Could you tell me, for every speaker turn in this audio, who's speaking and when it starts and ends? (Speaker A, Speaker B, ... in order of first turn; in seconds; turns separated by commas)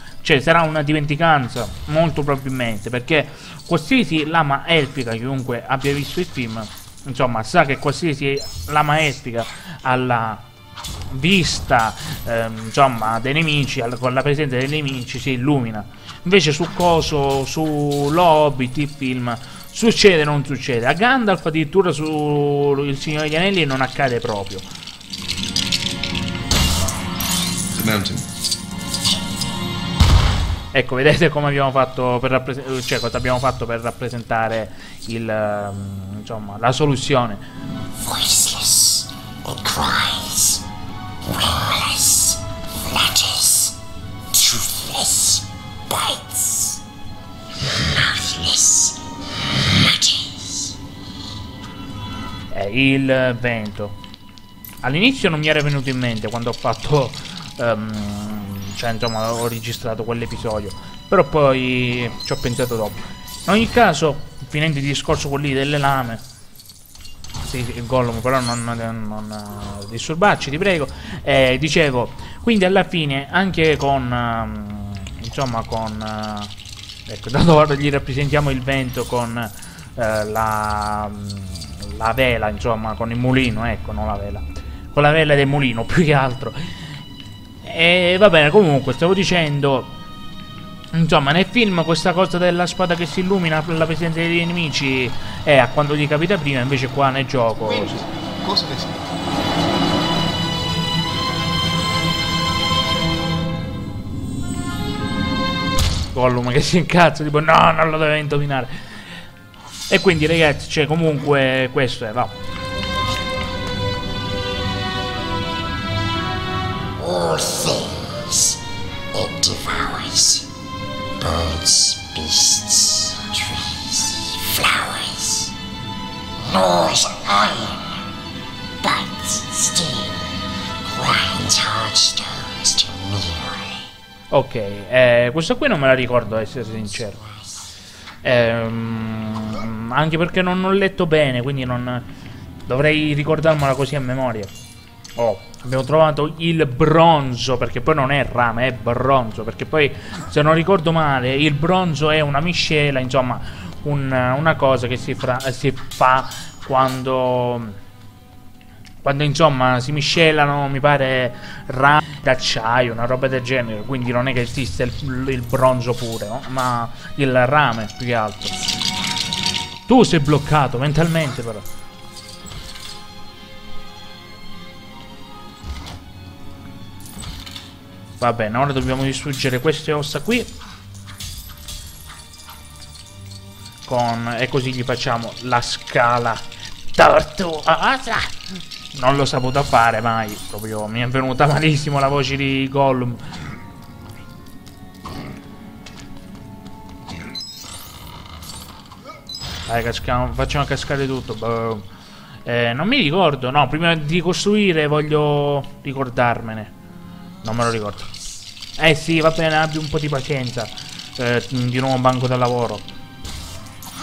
Speaker A: 0.2-10.4, Speaker A: 11.1-24.6, Speaker B: 27.7-28.2, Speaker A: 30.7-37.4, Speaker C: 38.0-40.6, Speaker C: 41.2-43.8, Speaker C: 44.3-46.8, Speaker C: 47.6-49.0, Speaker C: 49.5-50.8, Speaker A: 52.5-54.0, Speaker A: 54.8-66.2, Speaker A: 67.5-76.5, Speaker A: 77.1-86.8, Speaker A: 87.6-89.9, Speaker A: 90.9-98.0, Speaker B: 97.5-99.0, Speaker A: 106.1-108.7, Speaker A: 109.9-112.3, Speaker C: 117.0-118.6, Speaker C: 119.1-120.5, Speaker C: 121.2-125.5, Speaker C: 126.4-127.8, Speaker C: 128.8-133.9, Speaker A: 134.3-137.2, Speaker A: 138.2-142.1, Speaker A: 142.7-144.5, Speaker A: 145.2-157.8, Speaker A: 159.0-168.5, Speaker A: 169.9-171.6, Speaker A: 178.2-180.5, Speaker A: 183.8-186.4, Speaker A: 186.9-188.3, Speaker A: 188.9-193.2, Speaker A: 199.7-201.8, Speaker A: 202.4-206.7, Speaker A: 207.4-208.1, Speaker A: 208.8-212.9